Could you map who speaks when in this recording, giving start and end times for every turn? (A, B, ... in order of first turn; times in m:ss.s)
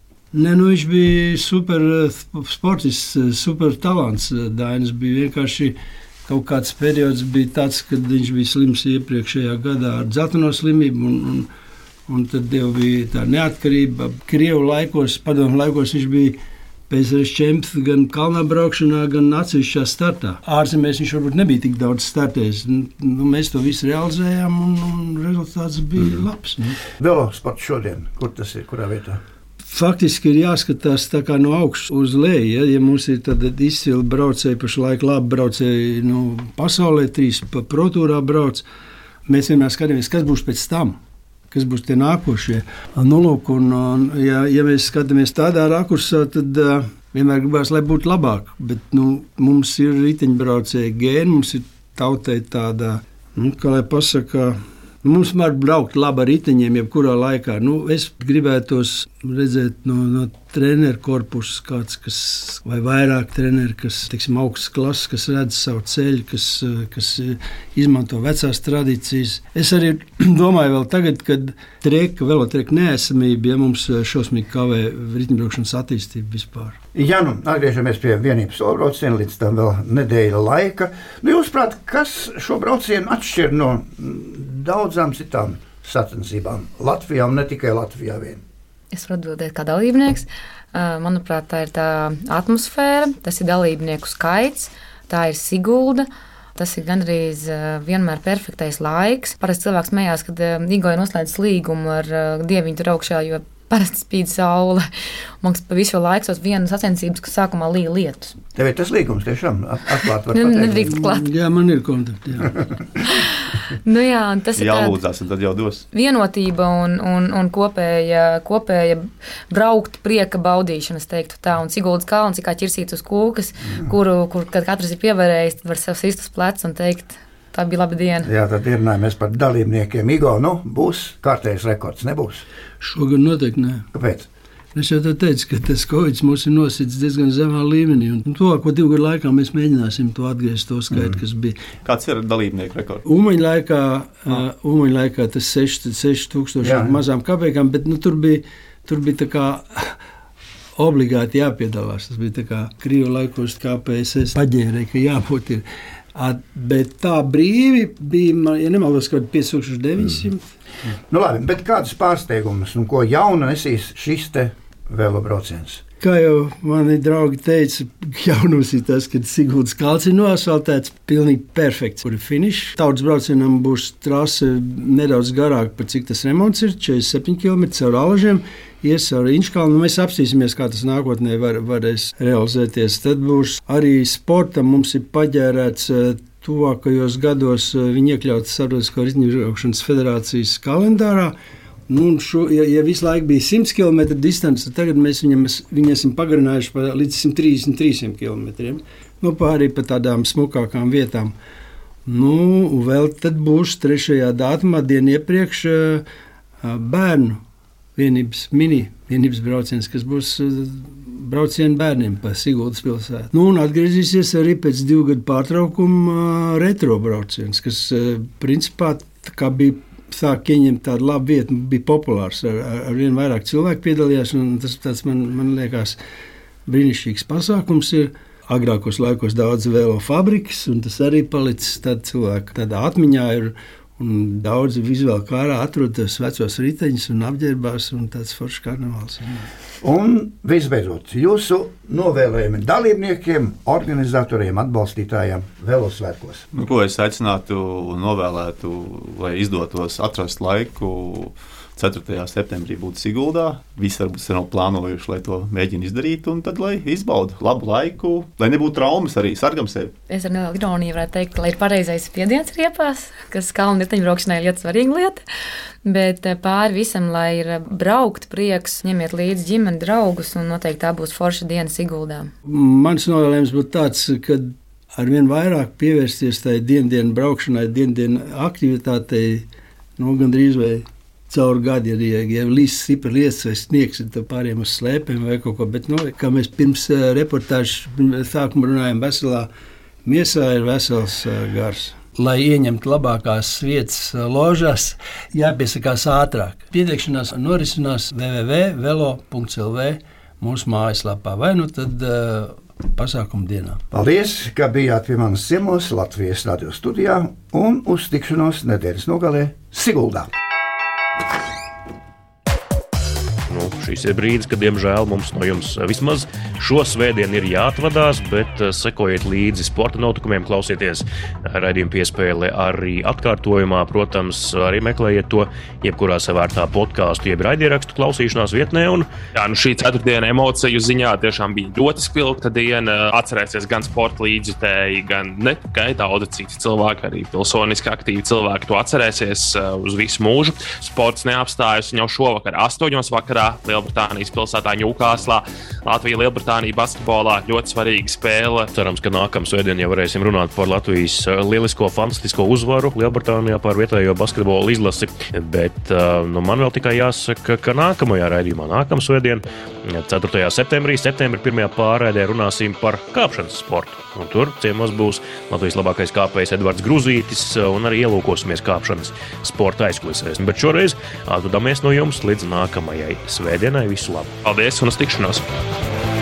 0:00.3-0:11.5 A
0:12.1-0:26.8 A
0:27.0-0:29.2 B
0:29.7-0:38.6 A
0:39.3-0:41.0 A
0:41.5-1:16.8 A
1:16.9-1:28.4 B
1:28.9-1:44.9 C
1:45.4-1:48.4 C
1:48.6-1:51.0 B
1:50.3-1:51.3 C
1:51.0-1:52.5 A
1:53.8-1:55.0 C
1:54.6-1:55.9 D
1:55.9-2:08.3 C
2:08.2-2:12.4 B
2:12.8-2:13.9 A
2:13.9-2:14.3 B
2:14.8-2:21.6 A
2:21.8-2:23.0 D
2:23.0-2:30.0 A
2:26.6-2:26.9 B
2:30.8-2:40.4 A
2:41.1-2:45.8 B
2:46.0-3:11.4 A
3:11.9-3:21.3 A
3:22.1-3:26.0 A
3:26.6-3:27.4 A
3:28.0-3:46.0 A
3:46.7-3:59.5 A
3:59.8-4:06.5 B
4:06.5-4:19.9 D
4:20.1-4:25.2 C
4:25.8-4:32.3 C
4:32.5-4:49.5 A
4:50.0-5:03.8 A
5:03.9-5:10.3 B
5:13.5-5:29.1 E
5:29.4-5:48.7 F
5:48.7-6:14.3 E
6:14.4-6:15.4 F